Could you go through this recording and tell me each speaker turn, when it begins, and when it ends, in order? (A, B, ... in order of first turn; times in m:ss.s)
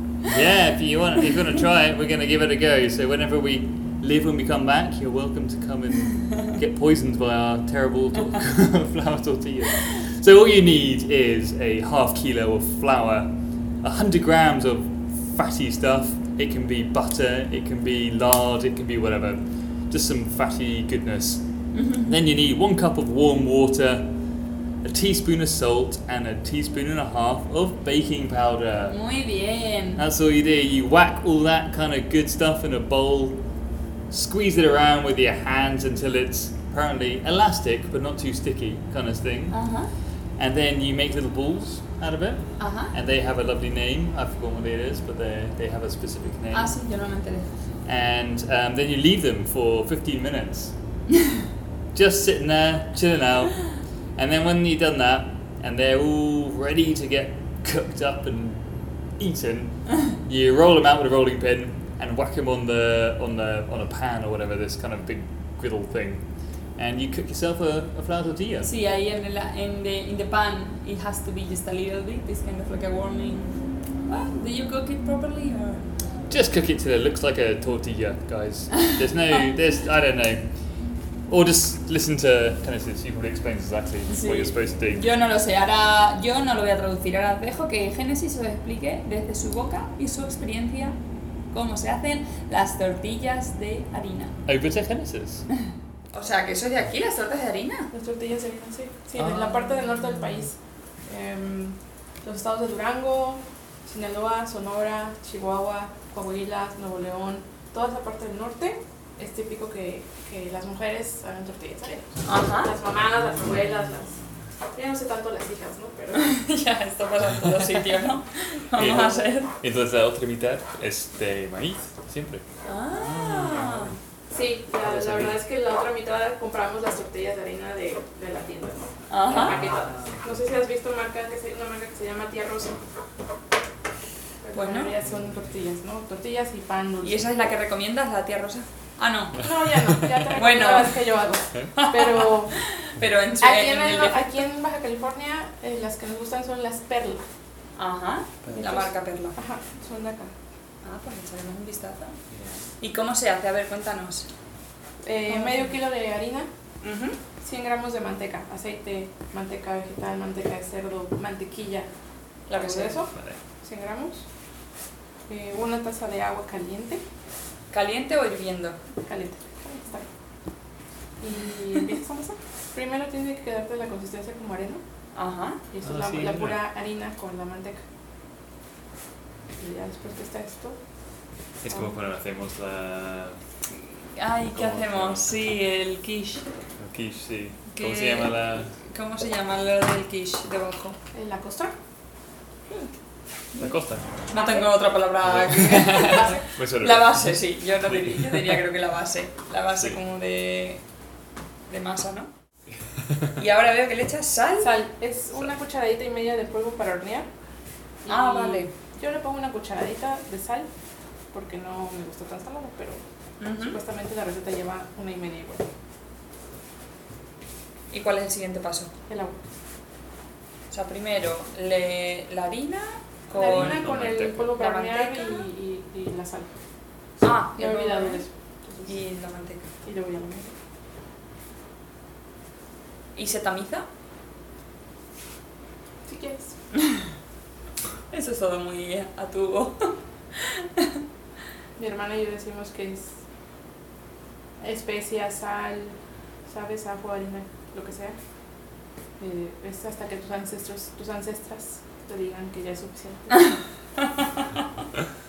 0:00.3-0:21.4 A
0:21.7-0:22.2 B
0:22.1-0:24.1 A
0:24.8-0:29.0 A
0:28.9-0:30.0 B
0:30.0-0:33.4 A
0:34.1-0:39.6 A
0:39.5-0:39.9 B
0:40.4-0:46.7 A
0:42.6-0:42.9 B
0:46.5-0:47.5 B
0:47.8-0:50.8 A
0:51.9-0:53.6 A
0:54.2-0:58.6 A
0:59.2-1:06.2 A
1:06.8-1:08.7 A
1:08.6-1:15.8 B
1:16.3-1:20.5 A
1:21.3-1:25.0 A
1:24.1-1:31.0 B
1:31.5-1:34.4 B
1:34.5-1:35.5 A
1:36.1-1:37.9 B
1:37.9-1:40.6 C
1:39.2-1:39.7 A
1:41.1-1:54.2 C
1:52.2-1:52.7 B
1:54.7-1:56.3 C
1:56.2-1:59.5 B
1:58.7-2:04.0 A
2:02.6-2:03.9 B
2:04.3-2:12.8 C
2:04.8-2:05.4 A
2:09.1-2:09.6 B
2:09.2-2:10.4 A
2:14.4-2:17.3 C
2:14.5-2:14.9 B
2:17.0-2:19.4 B
2:19.4-2:22.5 C
2:19.9-2:20.2 A
2:20.4-2:20.9 B
2:21.8-2:24.2 B
2:23.4-2:27.2 C
2:27.8-2:29.4 B
2:28.6-2:30.3 C
2:30.8-2:32.2 B
2:32.3-2:32.6 A
2:32.8-2:34.3 B
2:35.0-2:36.5 C
2:35.3-2:35.8 B
2:36.8-2:37.2 B
2:37.4-2:41.9 C
2:42.5-2:43.0 B
2:42.5-2:44.2 C
2:43.1-2:43.4 A
2:45.3-2:47.0 C
2:47.7-2:48.8 B
2:49.0-2:50.1 C
2:51.2-2:54.8 C
2:55.1-2:55.6 B
2:55.7-2:57.8 C
2:55.8-2:56.6 A
2:59.6-3:00.8 C
3:01.6-3:03.4 A
3:03.8-3:06.4 B
3:04.5-3:05.3 A
3:06.8-3:08.7 A
3:07.7-3:11.0 B
3:11.1-3:11.7 C
3:13.6-3:14.1 A
3:14.3-3:20.8 B
3:14.4-3:14.7 C
3:15.2-3:18.6 A
3:16.1-3:16.4 C
3:19.7-3:20.0 A
3:21.7-3:22.3 B
3:23.4-3:24.7 B
3:24.6-3:27.3 C
3:28.0-3:30.7 C
3:28.1-3:28.7 B
3:31.3-3:33.0 C
3:33.4-3:33.8 B
3:33.6-3:35.6 C
3:37.9-3:38.9 B
3:39.1-3:39.4 C
3:40.7-3:43.9 B
3:43.3-3:46.5 C
3:43.4-3:44.6 A
3:44.4-3:45.4 B
3:47.2-3:48.2 B
3:47.6-3:48.9 C
3:48.8-3:49.7 B
3:49.8-3:50.6 C
3:53.2-3:53.9 B
3:56.1-3:56.6 C
3:58.1-4:01.0 B
4:01.8-4:03.2 C
4:04.6-4:05.9 C
4:06.5-4:08.2 C
4:09.2-4:13.5 C
4:13.4-4:14.6 B